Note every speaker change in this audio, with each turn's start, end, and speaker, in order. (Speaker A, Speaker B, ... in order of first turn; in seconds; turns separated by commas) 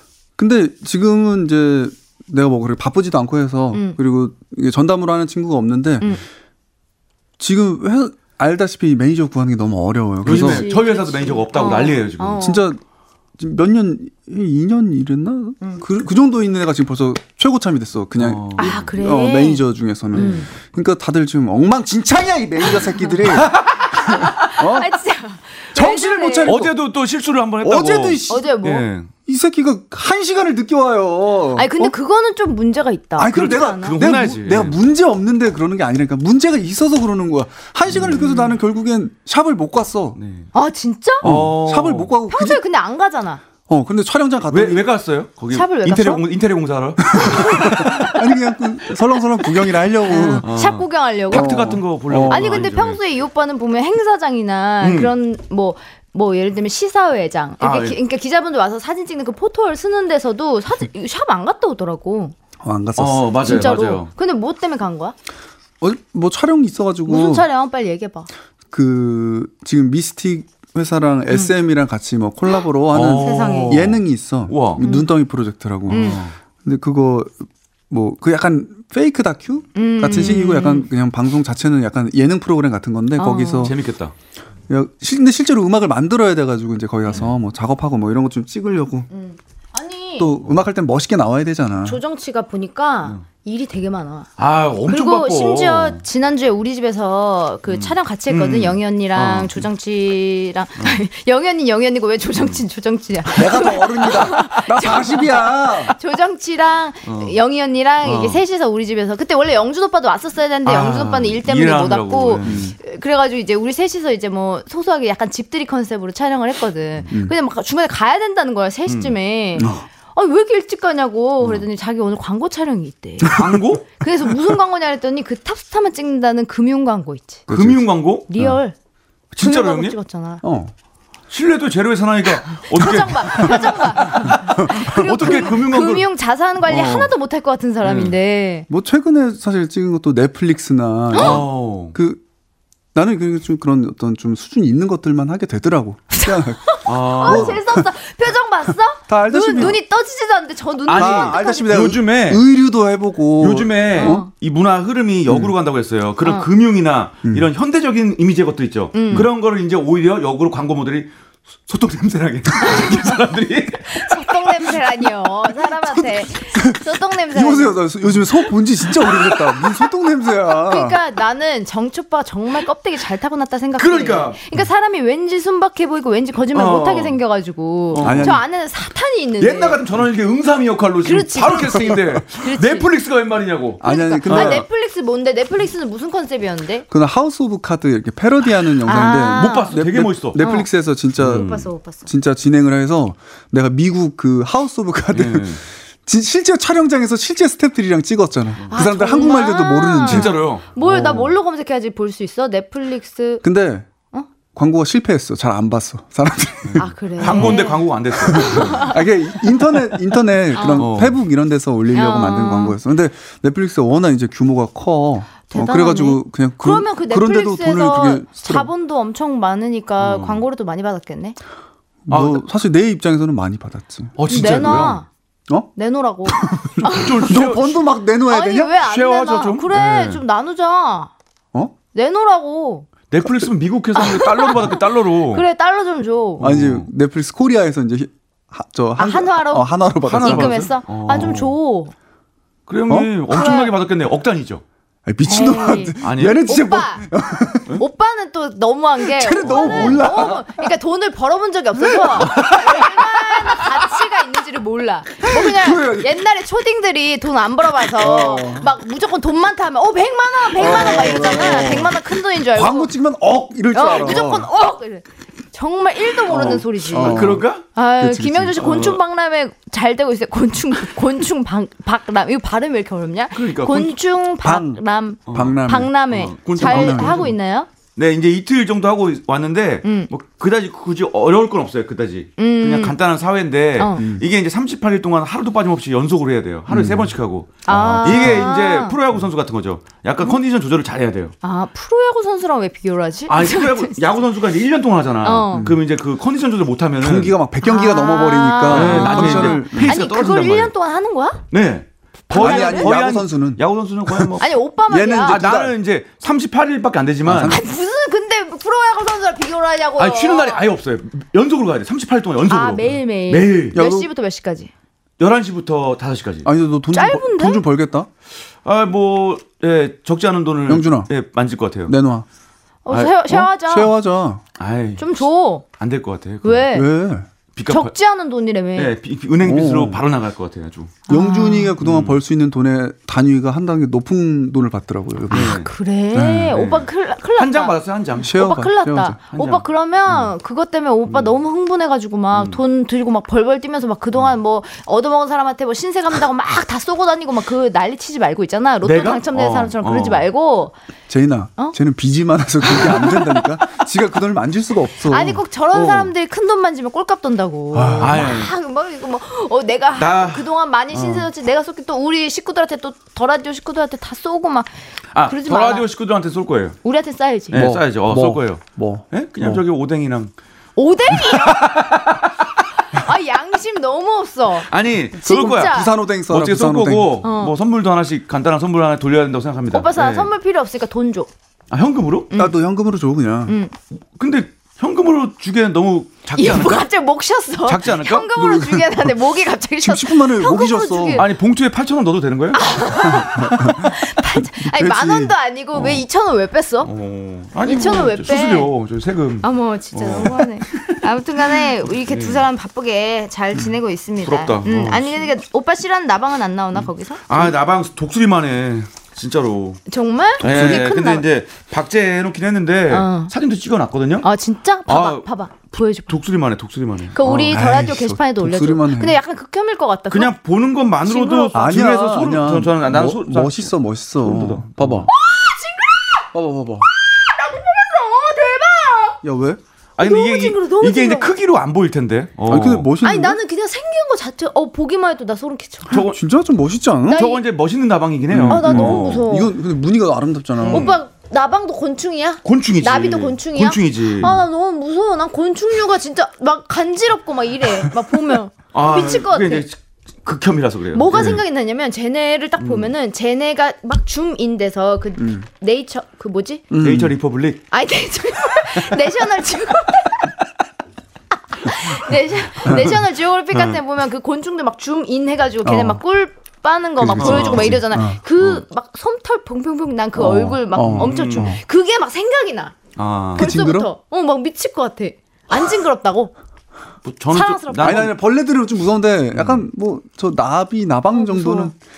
Speaker A: 0.4-6.2, Speaker A: 7.4-10.7, Speaker B: 10.2-12.4, Speaker C: 10.2-12.6, Speaker A: 12.4-12.8, Speaker A: 13.4-23.5, Speaker B: 18.1-18.8, Speaker C: 18.6-20.5, Speaker B: 20.1-20.4, Speaker C: 22.7-26.6, Speaker B: 23.3-23.9, Speaker A: 24.1-24.9, Speaker A: 25.7-26.7, Speaker B: 26.4-29.1, Speaker A: 27.6-28.5, Speaker C: 28.3-28.9, Speaker A: 29.2-31.9, Speaker C: 31.5-34.0, Speaker A: 33.2-40.2, Speaker B: 33.3-34.8, Speaker B: 37.9-38.3, Speaker C: 37.9-38.5, Speaker B: 40.2-40.5, Speaker C: 40.5-41.3, Speaker B: 41.2-42.1, Speaker A: 41.2-42.6, Speaker C: 42.3-43.4, Speaker A: 43.7-44.9, Speaker B: 44.5-47.8, Speaker C: 45.5-46.2, Speaker A: 47.1-50.5, Speaker C: 47.2-48.2, Speaker C: 50.0-51.7, Speaker B: 50.4-53.0, Speaker A: 51.3-52.6, Speaker C: 52.3-62.3, Speaker B: 54.8-55.1, Speaker B: 57.6-58.0, Speaker A: 62.6-63.7, Speaker B: 63.0-64.1, Speaker C: 63.4-65.1, Speaker A: 65.8-67.5, Speaker C: 67.0-68.3, Speaker A: 68.7-83.7, Speaker B: 72.9-74.8, Speaker C: 73.2-73.8, Speaker C: 74.8-75.1, Speaker C: 75.9-76.2, Speaker B: 76.0-76.3, Speaker C: 79.7-80.9, Speaker C: 83.2-83.7, Speaker B: 83.6-84.1, Speaker A: 84.7-89.1, Speaker C: 89.1-90.4, Speaker A: 90.2-92.0, Speaker C: 91.8-94.3, Speaker B: 94.4-96.0, Speaker C: 94.9-127.5, Speaker B: 97.7-99.6, Speaker A: 103.3-106.0, Speaker B: 107.0-107.4, Speaker B: 108.0-108.4, Speaker B: 110.7-112.6, Speaker A: 112.4-112.8, Speaker A: 117.1-117.3, Speaker B: 118.9-119.1, Speaker A: 119.6-119.8, Speaker B: 123.3-123.9, Speaker A: 127.5-127.8, Speaker B: 127.5-128.2, Speaker C: 128.3-128.8, Speaker B: 129.3-129.9, Speaker C: 129.4-130.4, Speaker A: 130.4-130.7, Speaker B: 131.3-136.1, Speaker C: 132.5-138.7, Speaker A: 135.2-135.5, Speaker B: 136.6-137.1, Speaker B: 137.8-138.1, Speaker A: 138.7-142.2, Speaker C: 141.1-141.4, Speaker B: 141.1-141.9, Speaker A: 142.9-147.8, Speaker C: 146.1-151.8, Speaker B: 146.8-147.6, Speaker A: 149.1-149.8, Speaker B: 150.9-152.4, Speaker A: 150.9-154.2, Speaker B: 153.4-161.1, Speaker C: 153.9-154.3, Speaker C: 158.9-159.3, Speaker B: 161.6-164.7, Speaker C: 163.8-169.9, Speaker A: 165.8-171.0, Speaker C: 170.5-179.8, Speaker B: 173.8-174.4, Speaker B: 176.5-177.2, Speaker B: 177.9-178.4, Speaker A: 178.0-178.4, Speaker B: 179.4-184.7, Speaker C: 181.0-182.9, Speaker A: 183.8-184.7, Speaker C: 183.8-186.8, Speaker A: 186.9-200.4, Speaker C: 188.7-189.8, Speaker B: 189.3-190.4, Speaker C: 190.4-190.7, Speaker B: 191.2-191.7, Speaker C: 191.3-192.1, Speaker B: 195.1-195.6, Speaker B: 198.6-199.2, Speaker C: 198.7-203.4, Speaker B: 200.0-201.3, Speaker A: 203.4-203.9, Speaker A: 204.5-207.6, Speaker B: 206.6-208.9, Speaker C: 206.8-209.1, Speaker A: 208.3-218.7, Speaker C: 210.5-210.9, Speaker B: 210.7-211.2, Speaker C: 211.9-212.8, Speaker C: 215.5-221.4, Speaker B: 220.0-220.4, Speaker A: 222.1-224.9, Speaker B: 222.1-222.4, Speaker B: 224.2-225.0, Speaker C: 224.2-225.1, Speaker C: 225.7-227.4, Speaker A: 226.3-228.8, Speaker B: 226.9-227.8, Speaker C: 228.3-231.1, Speaker B: 228.8-230.2, Speaker C: 231.9-232.9, Speaker B: 233.1-235.4, Speaker C: 233.9-236.5, Speaker B: 236.4-236.9, Speaker A: 236.4-240.7, Speaker C: 239.0-241.9, Speaker B: 240.1-241.5, Speaker B: 242.7-244.6, Speaker C: 243.3-243.7, Speaker A: 245.1-247.8, Speaker C: 245.2-247.1, Speaker B: 246.0-246.4, Speaker C: 247.8-262.9, Speaker A: 249.0-250.7, Speaker B: 249.4-250.2, Speaker A: 252.0-253.4, Speaker B: 252.2-252.8, Speaker A: 255.2-256.2, Speaker A: 257.9-258.7, Speaker A: 260.5-264.5, Speaker C: 263.7-277.7, Speaker B: 266.3-267.6, Speaker A: 266.9-267.5, Speaker A: 268.0-269.0, Speaker B: 268.6-269.0, Speaker B: 273.3-273.9, Speaker A: 274.4-275.9, Speaker B: 275.3-277.3, Speaker A: 276.6-277.3, Speaker B: 277.9-291.3, Speaker C: 279.8-280.1, Speaker C: 282.4-282.9, Speaker C: 283.8-284.1, Speaker A: 284.0-284.2, Speaker A: 286.7-287.1, Speaker C: 287.6-288.9, Speaker A: 287.7-288.5, Speaker C: 291.4-294.3, Speaker B: 293.3-297.3, Speaker C: 295.2-295.7, Speaker A: 297.0-299.9, Speaker C: 297.6-301.4, Speaker B: 298.7-300.7, Speaker B: 301.5-304.5, Speaker C: 302.3-302.9, Speaker A: 302.3-304.4, Speaker C: 304.4-305.4, Speaker A: 304.9-305.7, Speaker B: 305.2-307.6, Speaker A: 307.2-307.6, Speaker C: 307.4-310.6, Speaker B: 310.0-313.8, Speaker C: 312.5-314.7, Speaker A: 313.7-314.1, Speaker B: 315.2-316.5, Speaker A: 316.4-318.1, Speaker C: 316.9-317.6, Speaker B: 318.6-321.9, Speaker A: 320.7-321.1, Speaker A: 321.9-322.2, Speaker C: 322.8-323.9, Speaker A: 323.3-324.4, Speaker B: 324.6-325.2, Speaker C: 325.0-325.6, Speaker B: 325.8-326.7, Speaker C: 326.4-326.9, Speaker A: 326.7-327.3, Speaker B: 327.5-327.9, Speaker C: 327.7-328.9, Speaker B: 328.8-331.0, Speaker A: 329.4-330.0, Speaker C: 331.1-331.7, Speaker A: 331.1-335.6, Speaker B: 331.8-332.2, Speaker B: 335.3-335.7, Speaker C: 335.3-337.8, Speaker A: 336.1-336.6, Speaker B: 336.5-338.4, Speaker A: 338.2-339.2, Speaker C: 338.3-350.7, Speaker B: 339.3-340.3, Speaker B: 342.3-342.6, Speaker B: 348.8-350.3, Speaker A: 351.1-355.4, Speaker C: 352.7-353.4, Speaker C: 355.1-365.9, Speaker B: 355.7-356.1, Speaker A: 357.7-358.4, Speaker B: 358.0-358.5, Speaker B: 359.9-361.3, Speaker B: 365.1-366.8, Speaker C: 366.8-367.6, Speaker B: 367.5-370.3, Speaker A: 367.5-369.6, Speaker C: 370.8-371.8, Speaker B: 371.1-372.4, Speaker C: 372.9-374.7, Speaker B: 374.7-380.3, Speaker C: 375.2-375.9, Speaker A: 375.2-377.2, Speaker C: 377.2-377.5, Speaker C: 379.7-381.3, Speaker B: 381.7-382.3, Speaker C: 382.3-382.6, Speaker A: 382.3-383.6, Speaker C: 383.5-383.7, Speaker B: 384.1-386.9, Speaker C: 386.3-391.3, Speaker B: 387.6-388.3, Speaker A: 388.3-389.1, Speaker A: 389.8-391.2, Speaker B: 391.1-392.6, Speaker C: 392.5-396.9, Speaker A: 393.0-395.3, Speaker B: 395.8-396.0, Speaker B: 396.8-401.0, Speaker C: 397.6-398.7, Speaker C: 399.4-407.5, Speaker B: 401.6-402.5, Speaker B: 404.2-405.3, Speaker B: 406.8-409.8, Speaker C: 409.9-411.2, Speaker B: 410.4-414.3, Speaker A: 410.4-410.8, Speaker C: 412.9-413.3, Speaker C: 414.2-416.2, Speaker B: 414.9-415.3, Speaker B: 416.1-417.6, Speaker C: 417.1-420.3, Speaker A: 417.5-419.2, Speaker B: 420.1-425.1, Speaker C: 421.0-421.7, Speaker A: 421.5-425.1, Speaker C: 425.1-426.3, Speaker A: 426.3-426.9, Speaker C: 427.0-429.2, Speaker A: 429.2-429.6, Speaker B: 430.0-432.9, Speaker C: 430.0-431.3, Speaker A: 432.5-433.4, Speaker C: 433.0-436.0, Speaker B: 435.9-436.2, Speaker A: 435.9-437.3, Speaker C: 437.1-437.4, Speaker B: 437.1-439.2, Speaker A: 438.3-440.9, Speaker C: 438.5-439.5, Speaker B: 440.6-441.0, Speaker C: 440.7-449.7, Speaker B: 442.4-444.4, Speaker B: 448.7-451.4, Speaker C: 450.9-456.6, Speaker B: 452.6-452.9, Speaker A: 455.2-455.4, Speaker A: 456.7-457.1, Speaker B: 456.8-457.6, Speaker C: 457.7-460.4, Speaker C: 461.5-472.8, Speaker A: 462.6-462.9, Speaker B: 463.5-463.8, Speaker A: 465.6-466.0, Speaker A: 467.0-468.2, Speaker B: 467.1-467.8, Speaker A: 470.1-471.6, Speaker B: 470.8-471.5, Speaker B: 472.9-473.5, Speaker A: 473.4-473.9, Speaker C: 473.4-476.3, Speaker B: 477.0-478.1, Speaker C: 477.3-478.1, Speaker A: 477.8-481.8, Speaker B: 479.3-479.6, Speaker C: 481.1-481.7